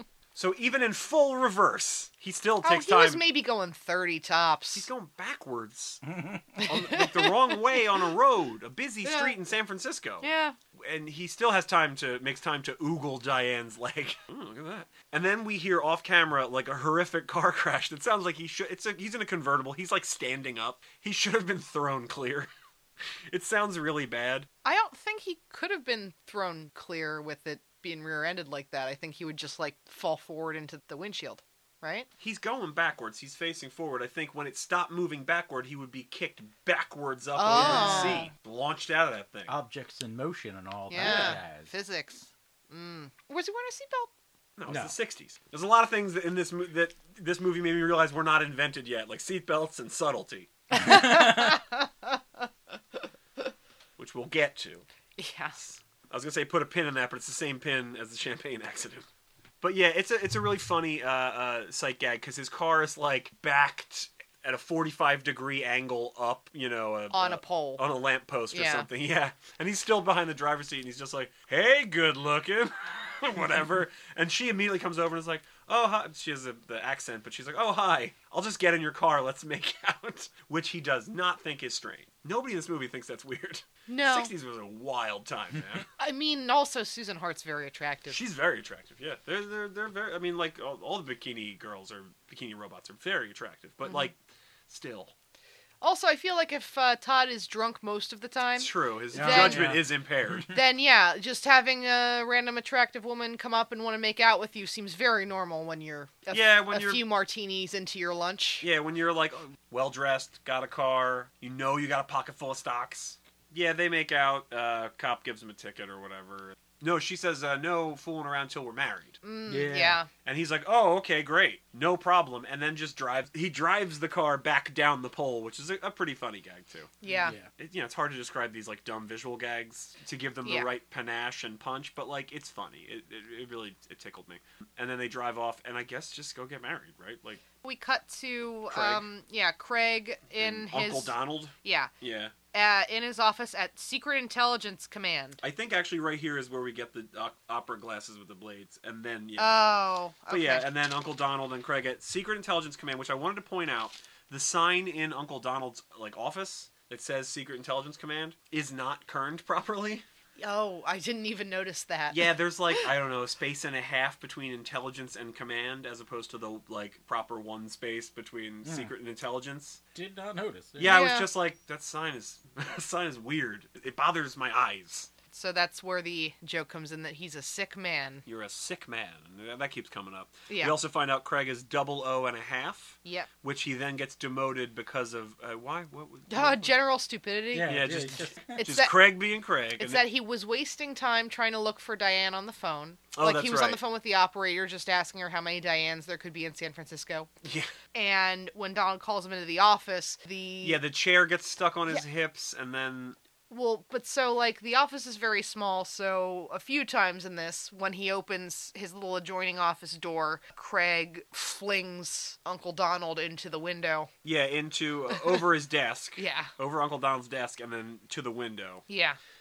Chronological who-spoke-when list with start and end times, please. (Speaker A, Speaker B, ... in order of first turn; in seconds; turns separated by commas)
Speaker A: 0.3-3.2, Speaker B: 2.6-4.8, Speaker A: 4.7-6.0, Speaker C: 6.1-6.6, Speaker B: 6.6-8.0, Speaker A: 6.6-22.5, Speaker B: 9.0-9.3, Speaker B: 10.2-10.6, Speaker A: 23.3-24.5, Speaker B: 24.6-32.1, Speaker A: 32.2-39.5, Speaker B: 37.4-38.3, Speaker C: 37.5-38.3, Speaker C: 39.5-41.7, Speaker B: 40.9-44.1, Speaker A: 41.0-41.4, Speaker A: 44.6-50.5, Speaker C: 44.7-44.9, Speaker B: 50.7-52.4, Speaker C: 50.8-51.6, Speaker A: 54.0-54.8, Speaker B: 55.2-55.6, Speaker A: 55.6-59.0, Speaker A: 59.6-85.9, Speaker B: 67.1-67.8, Speaker B: 68.5-68.9, Speaker B: 83.9-84.3, Speaker B: 86.0-88.2, Speaker A: 88.1-94.2, Speaker B: 93.8-94.1, Speaker A: 94.7-95.1, Speaker B: 95.8-99.8, Speaker A: 98.6-100.5, Speaker C: 99.1-99.8, Speaker B: 100.5-108.6, Speaker A: 106.3-107.0, Speaker A: 108.6-119.2, Speaker B: 119.2-120.1, Speaker C: 119.5-120.0, Speaker A: 120.2-126.9, Speaker B: 127.0-127.3, Speaker C: 127.0-127.5, Speaker A: 127.5-137.4, Speaker B: 137.6-141.9, Speaker A: 138.7-139.0, Speaker A: 140.4-142.3, Speaker B: 142.5-145.4, Speaker A: 145.4-149.6, Speaker B: 149.4-150.7, Speaker A: 150.3-160.0, Speaker B: 160.4-162.9, Speaker A: 162.1-169.8, Speaker C: 168.6-168.9, Speaker C: 169.9-171.0, Speaker A: 170.8-175.1, Speaker B: 170.8-171.3, Speaker B: 175.3-178.2, Speaker A: 178.2-186.7, Speaker B: 180.5-180.8, Speaker B: 183.0-183.3, Speaker B: 186.3-187.8, Speaker C: 187.5-188.6, Speaker A: 187.6-190.0, Speaker B: 188.6-189.1, Speaker B: 189.8-197.3, Speaker A: 193.1-193.8, Speaker A: 197.4-197.7, Speaker B: 197.9-200.8, Speaker A: 200.6-203.2, Speaker B: 203.5-214.1, Speaker A: 214.2-218.8, Speaker B: 215.1-215.4, Speaker B: 216.2-216.5, Speaker B: 218.9-219.2